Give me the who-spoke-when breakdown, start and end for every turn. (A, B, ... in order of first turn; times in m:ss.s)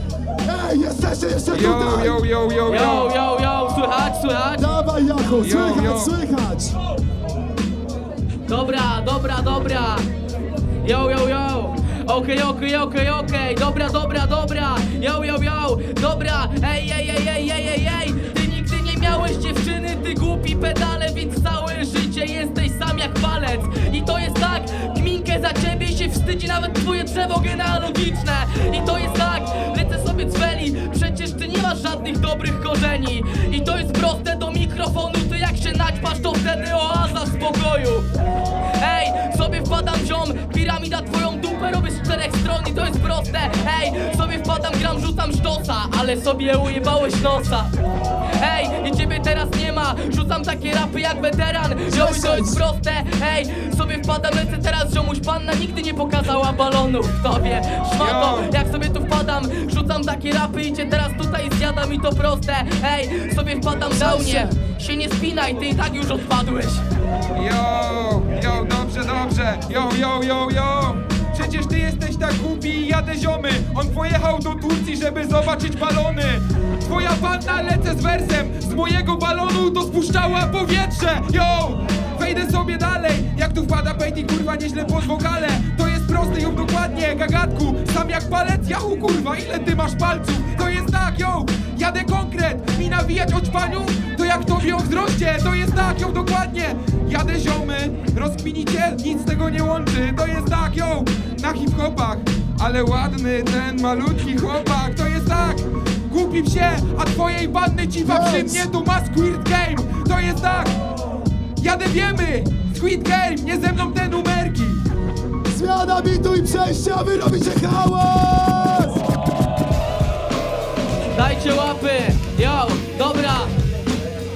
0:00.4-0:02.2 A
0:01.5-0:03.1 B
0:02.7-0:04.7 C
0:04.6-0:06.8 A
0:05.4-0:06.1 B
0:08.5-0:10.1 C
0:10.8-0:38.1 C
0:38.8-0:47.7 C
0:48.4-1:06.8 C
0:51.9-0:52.6 A
0:58.0-0:58.5 B
1:04.0-1:04.6 A
1:07.3-1:50.8 B
1:48.0-1:48.7 A
1:51.6-1:54.8 B
1:55.5-1:59.0 A
2:01.1-2:03.5 C